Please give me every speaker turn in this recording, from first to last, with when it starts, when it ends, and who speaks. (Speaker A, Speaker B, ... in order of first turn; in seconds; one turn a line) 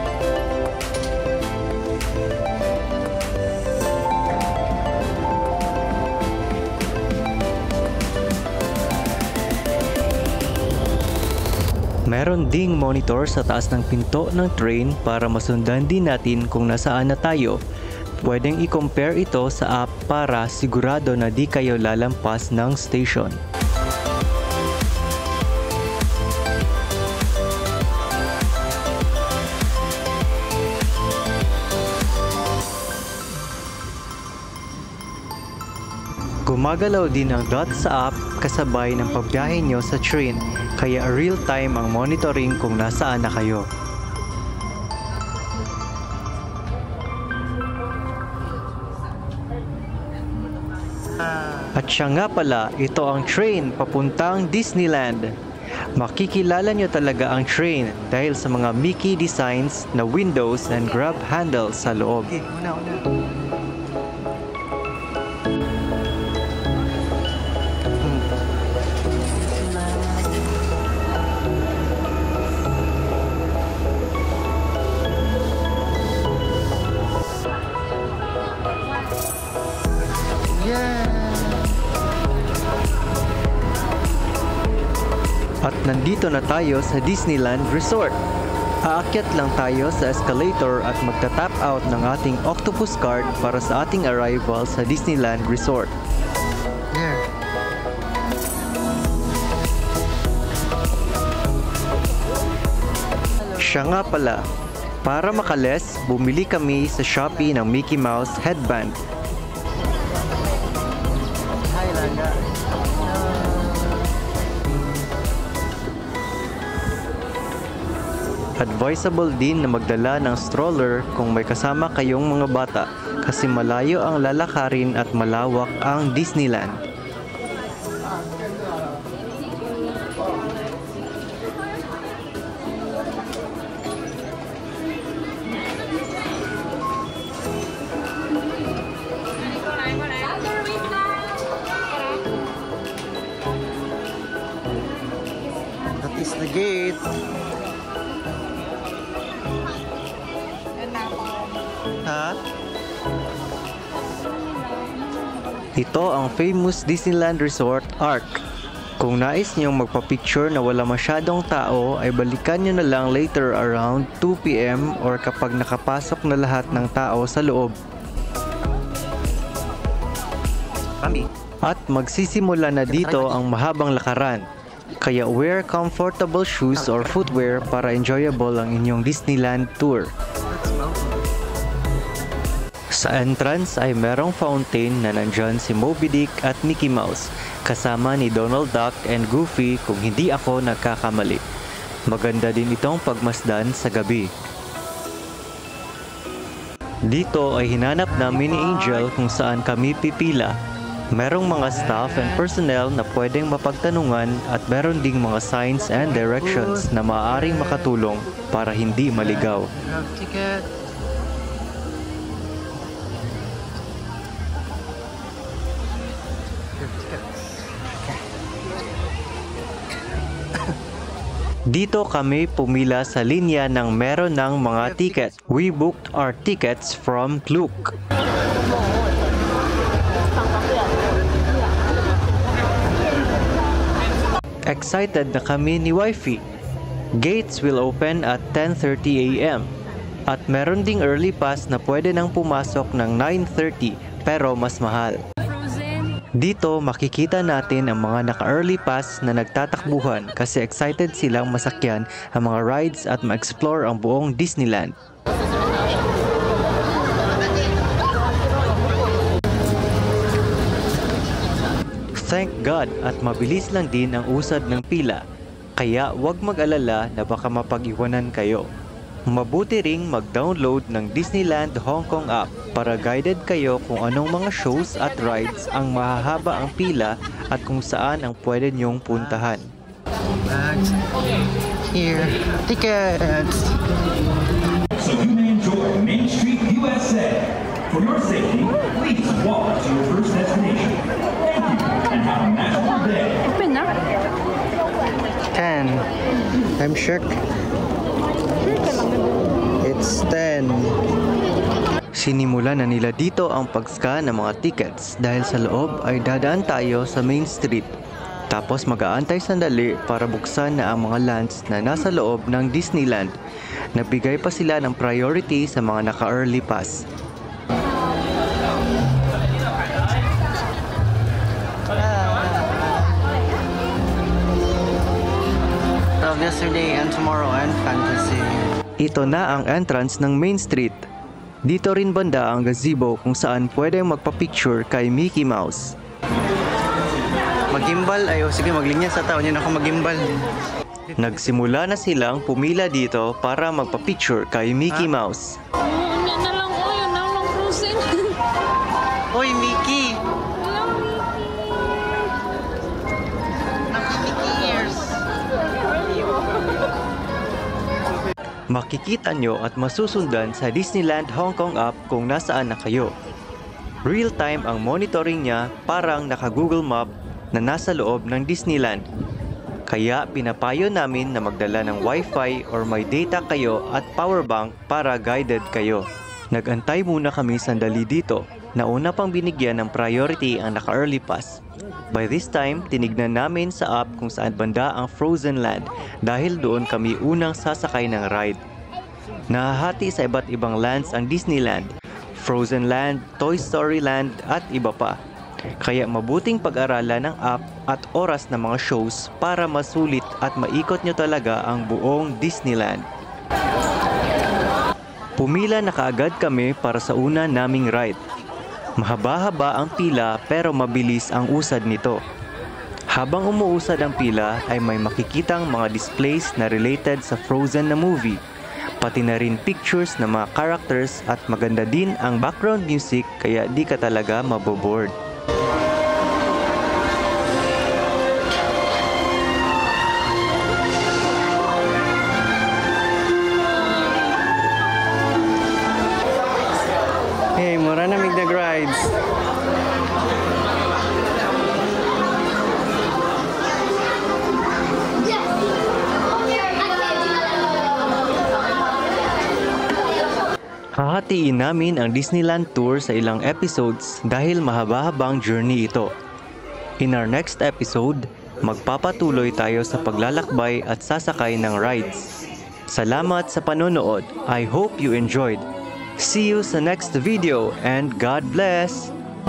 Speaker A: 12.1-17.6
Speaker A: 18.2-23.4
Speaker A: 36.5-43.7
Speaker A: 51.7-55.3
Speaker A: 56.0-62.4
Speaker B: 62.4-63.1
Speaker B: 69.8-70.3
Speaker B: 80.5-81.7
Speaker A: 85.7-88.2
Speaker A: 88.9-95.9
Speaker B: 96.9-97.2
Speaker A: 103.6-104.4
Speaker A: 105.0-109.0
Speaker B: 111.7-114.1
Speaker A: 118.6-126.8
Speaker B: 146.0-147.2
Speaker B: 152.0-152.4
Speaker A: 155.8-158.4
Speaker A: 159.0-167.8
Speaker B: 171.0-171.3
Speaker A: 171.7-174.4
Speaker B: 172.9-173.4
Speaker A: 175.0-180.1
Speaker B: 176.8-177.1
Speaker B: 180.5-181.2
Speaker A: 182.9-191.4
Speaker A: 192.1-194.3
Speaker A: 197.1-200.6
Speaker B: 198.1-199.1
Speaker A: 201.2-209.7
Speaker B: 201.7-202.5
Speaker B: 206.2-207.9
Speaker B: 209.2-210.7
Speaker B: 216.8-217.5
Speaker A: 221.7-227.9
Speaker B: 224.7-225.5
Speaker A: 234.7-236.4
Speaker A: 237.2-239.7
Speaker A: 240.3-245.2
Speaker A: 246.4-254.9
Speaker A: 262.2-265.2
Speaker A: 265.8-268.6
Speaker A: 269.3-279.7
Speaker B: 278.9-279.6
Speaker B: 280.5-281.0
Speaker B: 281.9-283.8
Speaker C: 285.0-293.5
Speaker D: 293.5-293.9
Speaker B: 295.5-296.1
Speaker B: 296.8-297.4
Speaker B: 299.8-301.0
Speaker A: 302.2-307.9
Speaker A: 308.5-313.3
Speaker A: 314.0-317.0
Speaker B: 322.0-323.0
Speaker B: 326.2-328.7
Speaker A: 329.0-331.0
Speaker A: 331.7-335.9
Speaker B: 337.7-340.4
Speaker A: 341.2-345.6
Speaker D: 345.9-348.4
Speaker B: 349.3-350.2
Speaker B: 353.9-355.2
Speaker A: 358.7-363.1
Speaker A: 364.1-369.0
Speaker A: 369.9-381.6
Speaker A: 382.1-388.6
Speaker A: 389.5-395.1
Speaker A: 395.8-403.1
Speaker A: 405.4-408.2
Speaker A: 409.0-412.2
Speaker A: 413.1-418.4
Speaker A: 419.0-425.1
Speaker B: 437.6-439.1
Speaker A: 451.0-456.1
Speaker A: 457.0-462.3
Speaker A: 462.9-465.6
Speaker A: 466.2-469.1